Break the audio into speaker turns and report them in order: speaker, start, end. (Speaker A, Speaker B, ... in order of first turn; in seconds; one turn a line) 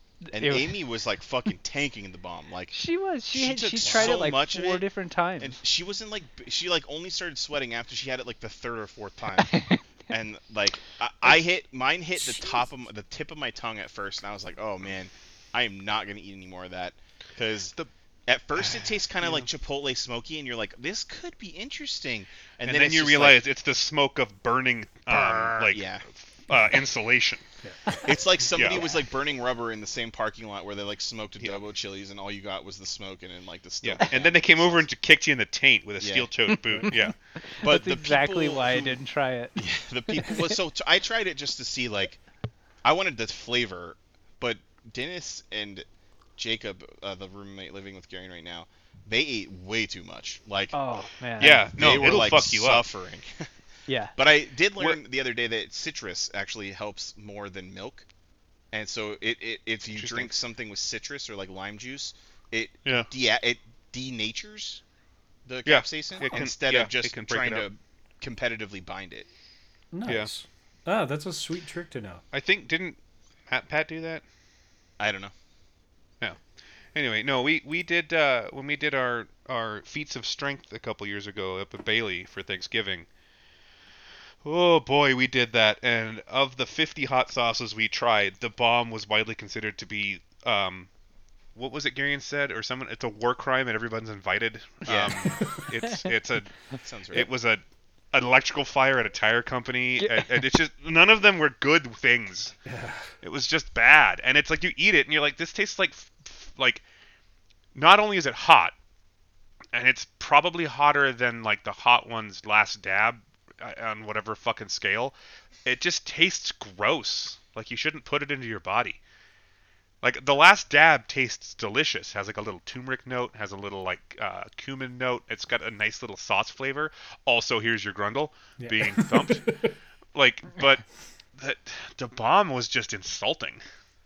Speaker A: 0.2-0.8
Speaker B: 0.3-2.8
Speaker A: 2.7-5.6
Speaker B: 3.3-4.9
Speaker C: 3.8-4.2
Speaker B: 5.4-9.5
Speaker A: 9.4-9.8
Speaker B: 10.1-17.8
Speaker B: 18.3-23.5
Speaker D: 22.6-27.4
Speaker C: 25.1-25.6
Speaker B: 25.5-26.1
Speaker C: 27.6-28.2
Speaker B: 28.0-34.9
Speaker D: 28.5-28.9
Speaker D: 33.8-37.1
Speaker B: 36.0-36.3
Speaker A: 37.5-39.6
Speaker B: 37.6-39.0
Speaker B: 39.5-42.2
Speaker A: 40.1-40.5
Speaker B: 42.8-45.9
Speaker B: 46.4-50.8
Speaker A: 50.7-51.7
Speaker D: 51.4-52.9
Speaker B: 51.4-53.5
Speaker A: 53.9-54.1
Speaker B: 54.1-58.1
Speaker B: 58.7-64.8
Speaker D: 59.9-60.4
Speaker D: 62.8-63.1
Speaker B: 65.5-69.3
Speaker D: 65.7-67.7
Speaker C: 69.9-72.2
Speaker D: 70.0-70.3
Speaker D: 72.3-74.2
Speaker B: 75.0-75.3
Speaker D: 76.9-83.1
Speaker D: 84.4-90.9
Speaker D: 91.5-102.6
Speaker B: 94.8-95.6
Speaker B: 96.8-97.3
Speaker C: 102.7-103.1
Speaker D: 103.2-106.8
Speaker D: 107.8-108.7
Speaker D: 109.7-119.0
Speaker D: 120.0-129.4
Speaker C: 128.6-129.8
Speaker D: 130.1-130.8
Speaker D: 131.4-133.6